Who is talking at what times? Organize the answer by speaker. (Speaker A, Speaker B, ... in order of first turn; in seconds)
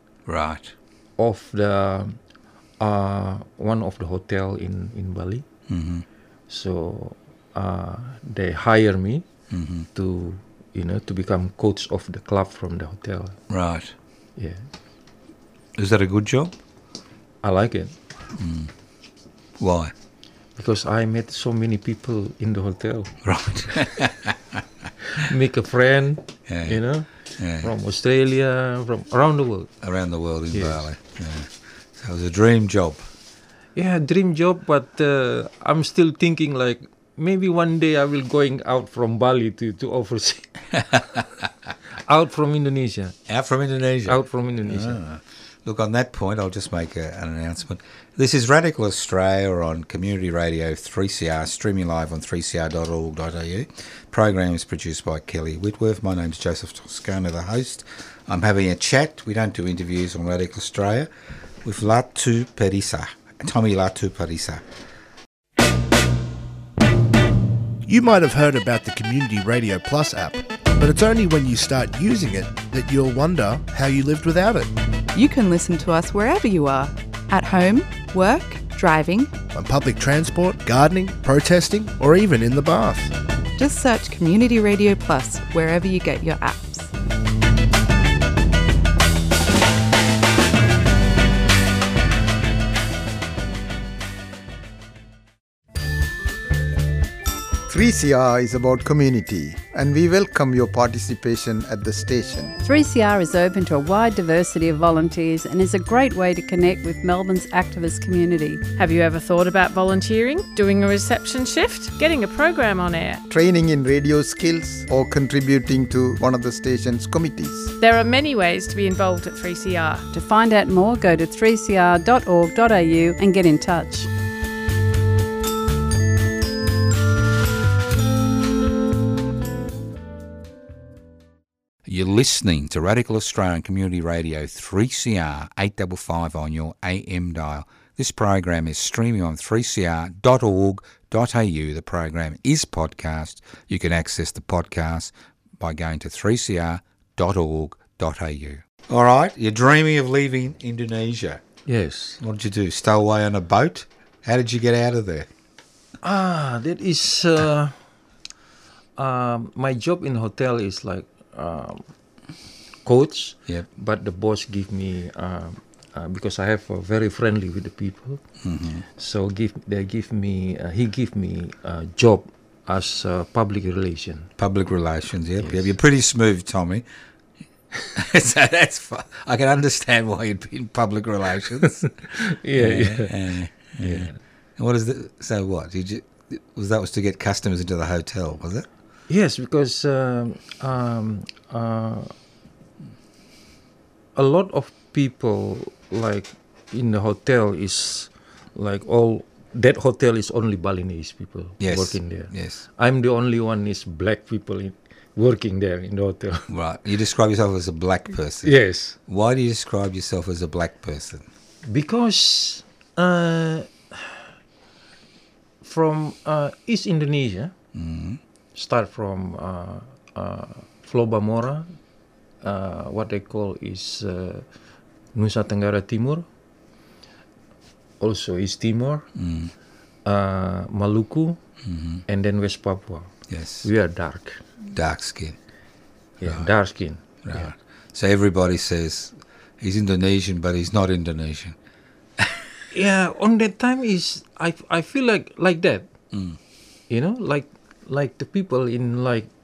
Speaker A: 0.3-0.7, 5.7-6.0, 9.5-9.9, 13.5-13.9, 15.8-16.6, 18.4-18.7, 19.6-19.9, 23.2-24.6, 26.5-26.8, 27.4-27.7, 29.8-33.1, 40.8-41.5, 43.3-61.1, 61.6-64.6, 131.8-151.4, 152.2-155.3, 168.4-168.9, 174.4-176.8, 177.9-188.7, 201.6-202.6, 206.5-211.3, 217.7-218.2, 229.2-229.5, 231.7-232.0, 233.3-233.7, 234.7-235.4, 236.2-236.5, 237.2-241.6, 242.2-242.4, 246.1-246.4
Speaker B: 1.2-2.2, 2.8-5.5, 6.5-9.2, 9.9-13.4, 14.4-14.7, 17.4-18.0, 20.6-23.1, 25.1-27.1, 27.6-29.7, 30.5-30.9, 33.8-40.5, 42.0-43.2, 44.1-45.0, 151.7-152.2, 156.0-157.8, 159.0-161.8, 162.8-168.2, 169.0-174.3, 175.4-175.7, 182.0-184.2, 189.1-192.1, 194.2-206.5, 208.4-209.0, 211.7-214.2, 215.6-217.5, 218.6-221.7, 222.4-224.5, 225.2-226.2, 228.0-229.1, 230.1-231.4, 232.1-233.1, 233.6-234.4, 236.2-237.5, 242.7-245.9, 246.9-249.3
Speaker C: 67.8-74.7, 79.5-83.1
Speaker D: 75.1-79.3, 83.6-86.9
Speaker E: 97.7-102.5, 113.3-117.7
Speaker F: 102.6-108.7, 120.1-124.1
Speaker G: 108.8-113.2, 117.8-120.0